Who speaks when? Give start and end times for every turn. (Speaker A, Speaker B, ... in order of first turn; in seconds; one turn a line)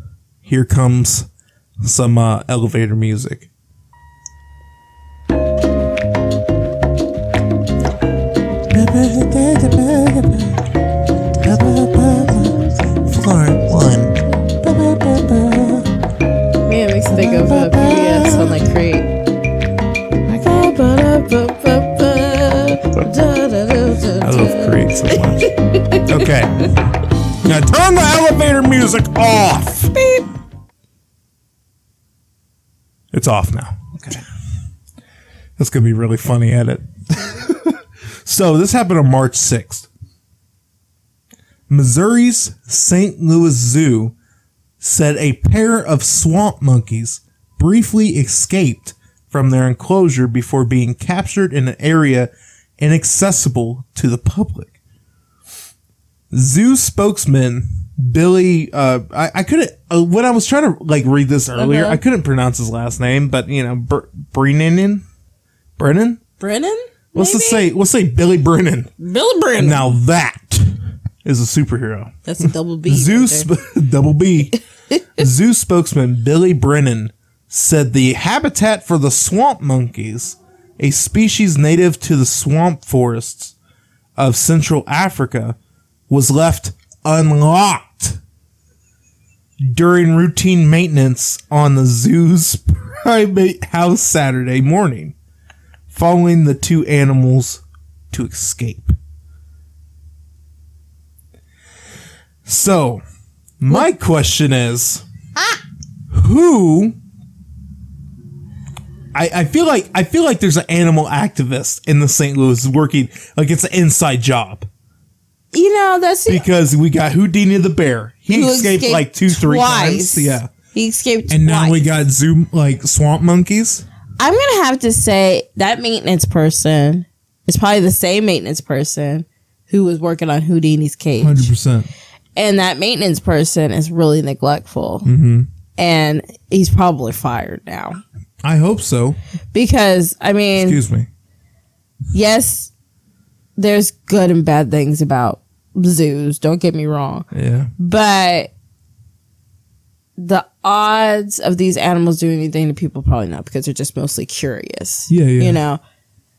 Speaker A: 0.5-1.3
Speaker A: 1.8-3.5
Speaker A: 8.7-10.7
Speaker A: 11.4-15.9
Speaker B: 12.1-12.8
Speaker B: 16.7-19.1
Speaker A: 17.1-18.6
Speaker A: 20.3-20.7
Speaker B: 20.4-26.6
Speaker A: 24.2-26.7
Speaker A: 27.4-29.9
Speaker B: 29.9-30.3
Speaker A: 33.1-34.2
Speaker A: 35.6-39.9
Speaker A: 41.7-44.1
Speaker A: 44.8-54.8
Speaker A: 56.3-65.0
Speaker B: 61.5-62.0
Speaker A: 65.8-66.2
Speaker B: 66.4-67.7
Speaker A: 67.2-68.9
Speaker B: 69.0-69.9
Speaker A: 69.6-74.6
Speaker B: 72.2-73.5
Speaker A: 75.2-83.5
Speaker A: 84.2-85.6
Speaker A: 86.1-88.2
Speaker A: 89.6-95.2
Speaker A: 95.9-98.9
Speaker A: 102.5-103.0
Speaker A: 103.6-105.0
Speaker A: 106.1-107.0
Speaker A: 109.1-114.7
Speaker B: 115.5-116.5
Speaker A: 116.3-120.5
Speaker B: 118.3-121.8
Speaker A: 121.3-123.9
Speaker B: 124.2-131.5
Speaker A: 131.2-131.9
Speaker B: 132.4-135.1
Speaker A: 135.1-135.5
Speaker B: 135.8-138.0
Speaker A: 138.4-139.2
Speaker B: 139.5-140.8
Speaker A: 140.6-141.1
Speaker B: 142.1-142.7
Speaker B: 143.6-147.3
Speaker A: 147.3-147.7
Speaker B: 147.8-148.5
Speaker B: 150.2-155.8
Speaker A: 155.1-155.6